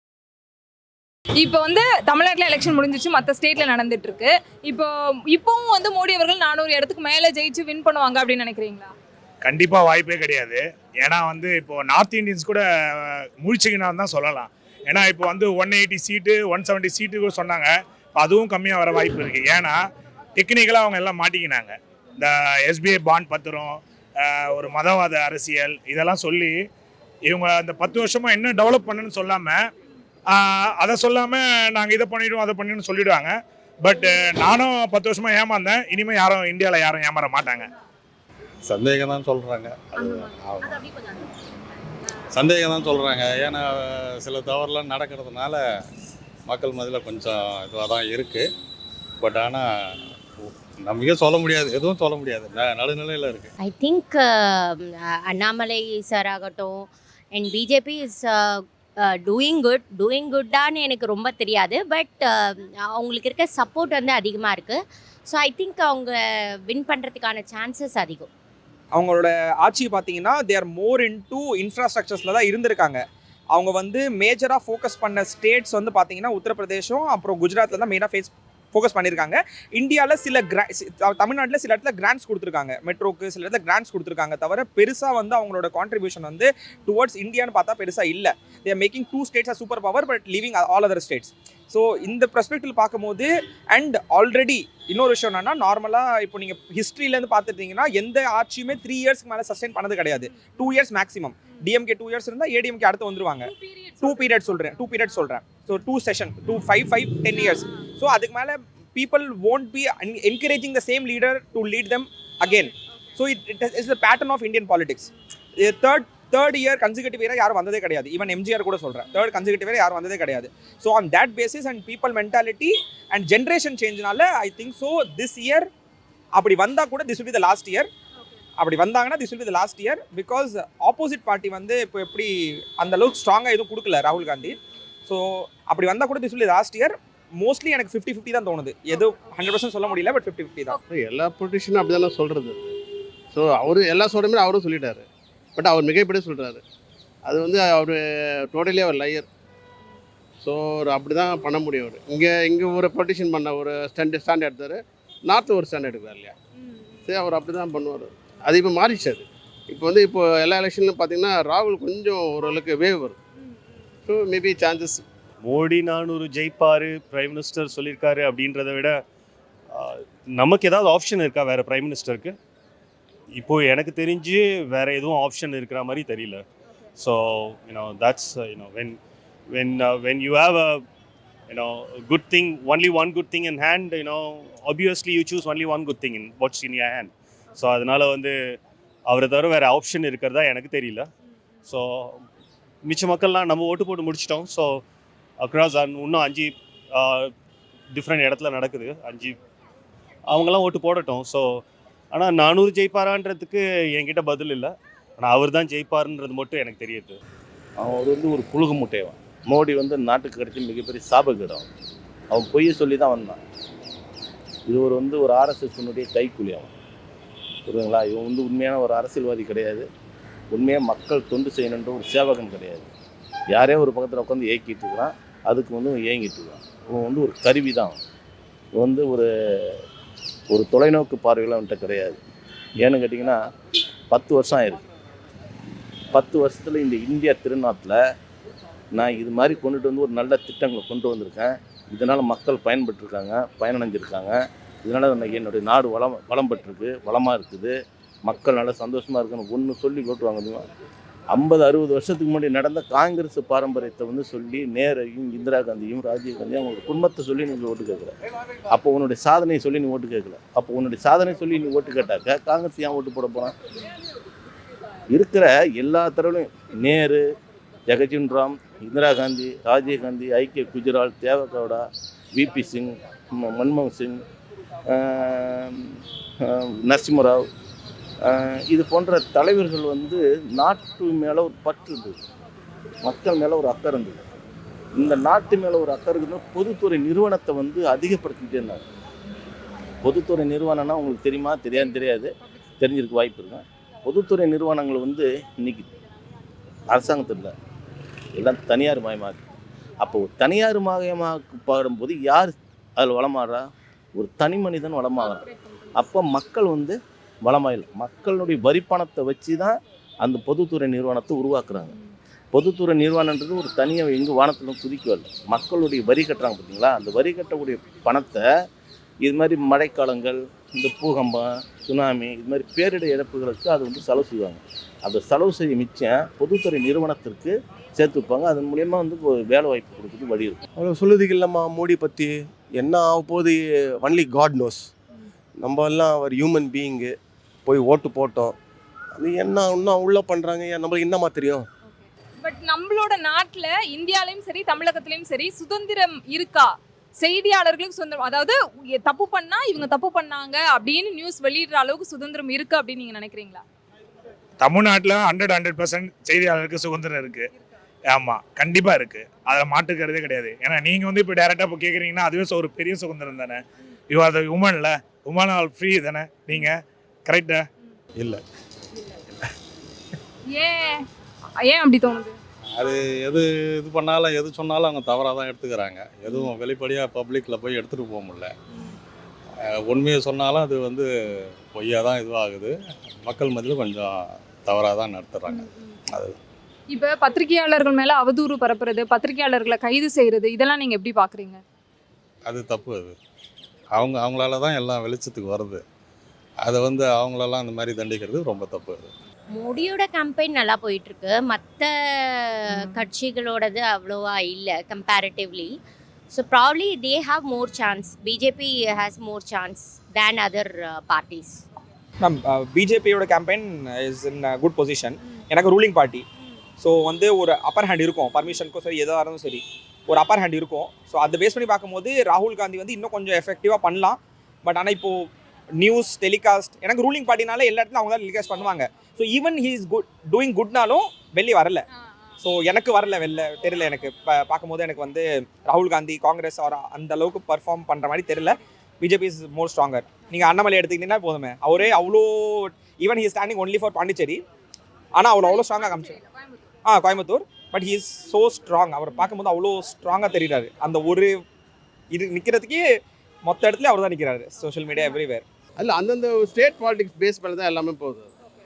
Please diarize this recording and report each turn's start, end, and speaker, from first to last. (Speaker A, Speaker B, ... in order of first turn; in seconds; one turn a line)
Speaker A: 1.4-8.9
Speaker B: 9.4-19.8
Speaker B: 20.4-26.6
Speaker B: 27.3-29.6
Speaker B: 30.3-37.7
Speaker C: 38.6-40.8
Speaker C: 42.3-45.6
Speaker C: 46.5-48.4
Speaker C: 49.2-49.6
Speaker C: 50.8-53.5
Speaker D: 53.6-68.3
Speaker E: 68.9-73.0
Speaker E: 73.5-125.7
Speaker A: 103.5-104.3
Speaker E: 126.3-127.9
Speaker E: 128.6-140.8
Speaker F: 140.9-142.7
Speaker F: 143.3-146.6
Speaker F: 147.2-149.3
Speaker F: 150.4-156.3
Speaker A: 156.6-157.1
Speaker F: 157.1-163.2
Speaker F: 164.1-165.0
Speaker G: 165.4-169.0
Speaker G: 169.7-172.3
Speaker G: 173.4-176.4
Speaker G: 177.0-179.0
Speaker G: 179.5-180.8
Speaker G: 181.5-188.3
Speaker G: 189.1-191.1
Speaker G: 191.7-192.2
Speaker G: 192.8-194.8
Speaker G: 195.4-197.3
Speaker G: 197.9-199.4
Speaker G: 200.3-207.2
Speaker H: 207.8-211.7
Speaker H: 212.3-213.4
Speaker H: 214.7-216.7
Speaker H: 217.7-219.8
Speaker H: 220.5-222.9
Speaker H: 223.5-228.0
Speaker H: 228.8-229.8
Speaker H: 230.5-232.2
Speaker H: 232.8-233.4
Speaker H: 234.1-234.8
Speaker H: 236.1-238.0
Speaker H: 238.9-244.3
Speaker H: 244.8-247.7
Speaker H: 248.3-250.7
Speaker H: 251.3-258.1
Speaker H: 258.7-263.5
Speaker H: 265.1-267.2
Speaker H: 267.9-271.8
Speaker H: 272.3-274.2
Speaker H: 274.9-277.4
Speaker H: 278.2-282.2
Speaker H: 283.1-284.2
Speaker H: 285.0-288.8
Speaker H: 290.0-295.9
Speaker H: 296.9-297.5
Speaker H: 298.4-299.4
Speaker H: 300.0-303.6
Speaker H: 304.2-306.9
Speaker H: 307.5-311.9
Speaker H: 312.5-318.4
Speaker H: 319.2-330.6
Speaker I: 330.8-334.9
Speaker I: 335.6-337.1
Speaker I: 337.6-338.5
Speaker I: 339.2-341.6
Speaker A: 342.4-353.6
Speaker B: 354.6-357.5
Speaker B: 358.1-367.6
Speaker A: 370.5-371.0
Speaker A: 371.6-372.3
Speaker C: 372.7-378.5
Speaker C: 379.9-381.1
Speaker C: 381.7-384.1
Speaker C: 384.6-385.6
Speaker A: 385.5-385.9
Speaker A: 386.9-391.6
Speaker C: 392.4-393.1
Speaker C: 393.9-395.8
Speaker C: 396.6-399.1
Speaker D: 399.5-405.7
Speaker D: 406.3-411.6
Speaker E: 412.2-416.2
Speaker E: 416.8-425.3
Speaker E: 425.8-431.9
Speaker E: 432.4-444.4
Speaker E: 445.1-446.2
Speaker A: 445.4-446.6
Speaker E: 446.8-451.4
Speaker E: 452.1-452.8
Speaker E: 453.4-455.4
Speaker F: 455.8-458.3